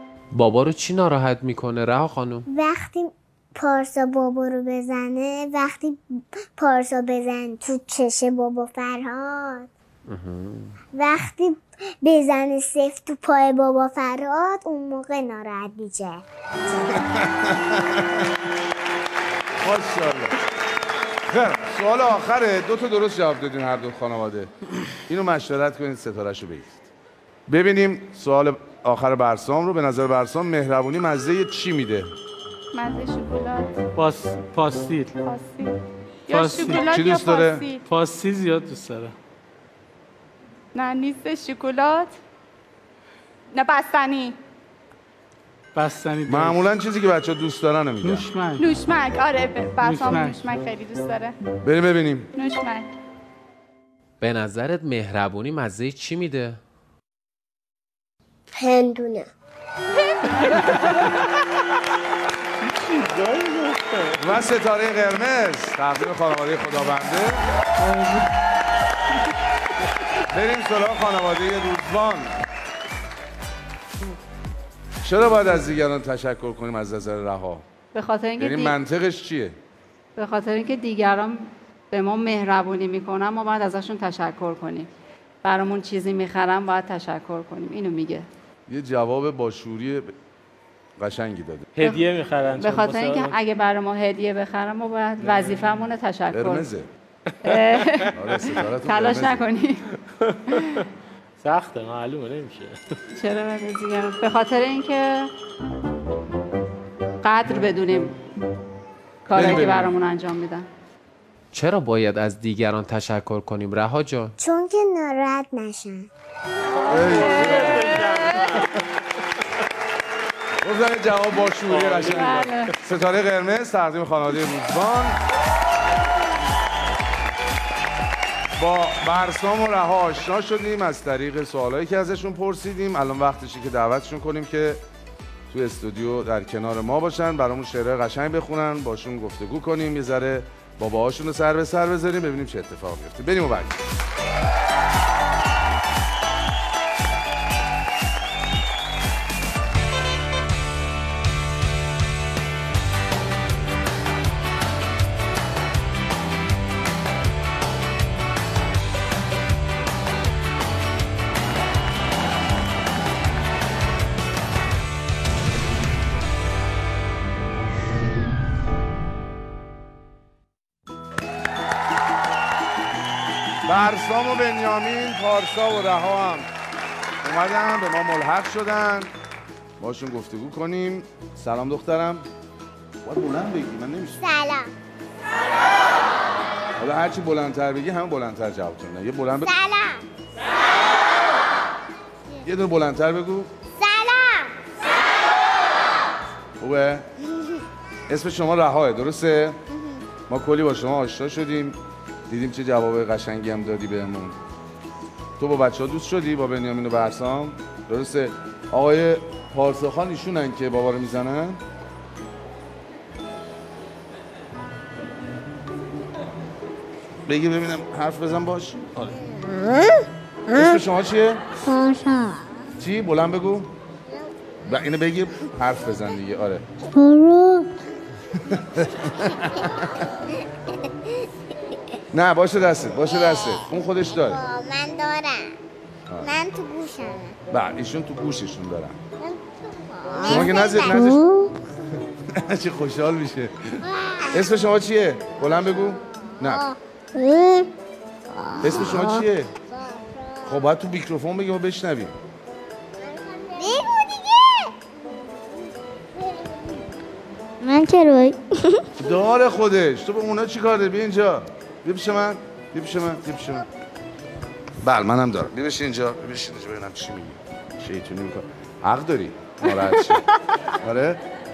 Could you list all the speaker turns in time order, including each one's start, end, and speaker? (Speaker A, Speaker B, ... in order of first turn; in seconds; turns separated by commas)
Speaker A: 0.3-2.5, Speaker B: 2.5-9.7, Speaker A: 10.1-10.8, Speaker B: 10.9-16.2, Speaker C: 16.9-18.3, Speaker C: 19.6-20.3, Speaker C: 21.3-24.5, Speaker C: 25.1-26.9, Speaker C: 27.5-32.1, Speaker D: 32.7-33.8, Speaker E: 34.0-35.1, Speaker D: 35.2-37.8, Speaker E: 36.3-36.8, Speaker C: 36.9-37.7, Speaker E: 37.9-39.1, Speaker D: 40.7-42.1, Speaker D: 43.5-44.4, Speaker E: 45.8-46.6, Speaker C: 46.3-48.3, Speaker E: 48.0-48.7, Speaker D: 48.6-51.4, Speaker E: 49.8-50.4, Speaker C: 51.6-52.3, Speaker D: 52.4-52.9, Speaker A: 54.2-56.6, Speaker B: 58.6-59.3, Speaker F: 62.7-64.2, Speaker C: 64.2-67.4, Speaker E: 67.8-68.3, Speaker C: 70.3-72.3, Speaker C: 75.0-77.7, Speaker G: 77.9-78.8, Speaker C: 78.4-79.6, Speaker G: 80.2-84.9, Speaker G: 85.4-88.3, Speaker C: 88.7-90.1, Speaker C: 91.0-91.7, Speaker F: 91.8-93.4, Speaker G: 92.6-96.7, Speaker F: 95.2-95.6, Speaker C: 96.3-96.9, Speaker G: 97.4-98.2, Speaker F: 97.5-98.1, Speaker C: 98.1-99.4, Speaker G: 98.8-99.9, Speaker F: 100.2-100.8, Speaker G: 100.5-100.8, Speaker F: 101.4-102.8, Speaker G: 103.2-105.3, Speaker G: 107.2-108.2, Speaker G: 109.3-110.7, Speaker C: 109.3-109.9, Speaker A: 111.5-114.4, Speaker B: 114.4-116.1, Speaker F: 116.8-118.9, Speaker C: 116.9-118.0, Speaker G: 116.9-118.6, Speaker C: 120.6-125.2, Speaker F: 121.7-122.8, Speaker G: 122.1-122.7, Speaker C: 128.6-134.8, Speaker C: 135.5-143.8, Speaker C: 173.7-176.5, Speaker C: 177.2-179.1, Speaker C: 179.8-182.3, Speaker C: 183.1-184.2, Speaker B: 184.2-184.7, Speaker C: 186.8-189.5, Speaker B: 189.4-190.0, Speaker C: 192.4-193.5, Speaker B: 193.8-194.5, Speaker C: 196.6-197.1, Speaker C: 198.1-199.6, Speaker C: 200.3-201.8, Speaker C: 202.3-204.4, Speaker C: 205.4-211.6, Speaker C: 217.3-219.1, Speaker B: 219.1-220.8, Speaker C: 220.5-221.4, Speaker B: 221.7-222.4, Speaker C: 222.8-223.7, Speaker C: 224.7-226.7, Speaker B: 226.9-227.7, Speaker C: 228.4-230.0, Speaker B: 229.4-230.1, Speaker C: 232.1-234.4, Speaker B: 233.1-233.6, Speaker B: 234.1-235.5, Speaker B: 236.2-237.4, Speaker C: 237.5-239.0, Speaker B: 239.2-241.5, Speaker C: 240.2-241.2, Speaker C: 242.3-246.7, Speaker B: 243.8-244.4, Speaker B: 246.4-247.7, Speaker B: 248.3-250.4, Speaker C: 248.6-249.5, Speaker C: 250.4-252.2, Speaker B: 253.1-254.7, Speaker B: 257.6-258.8, Speaker C: 259.0-263.7, Speaker C: 264.8-271.2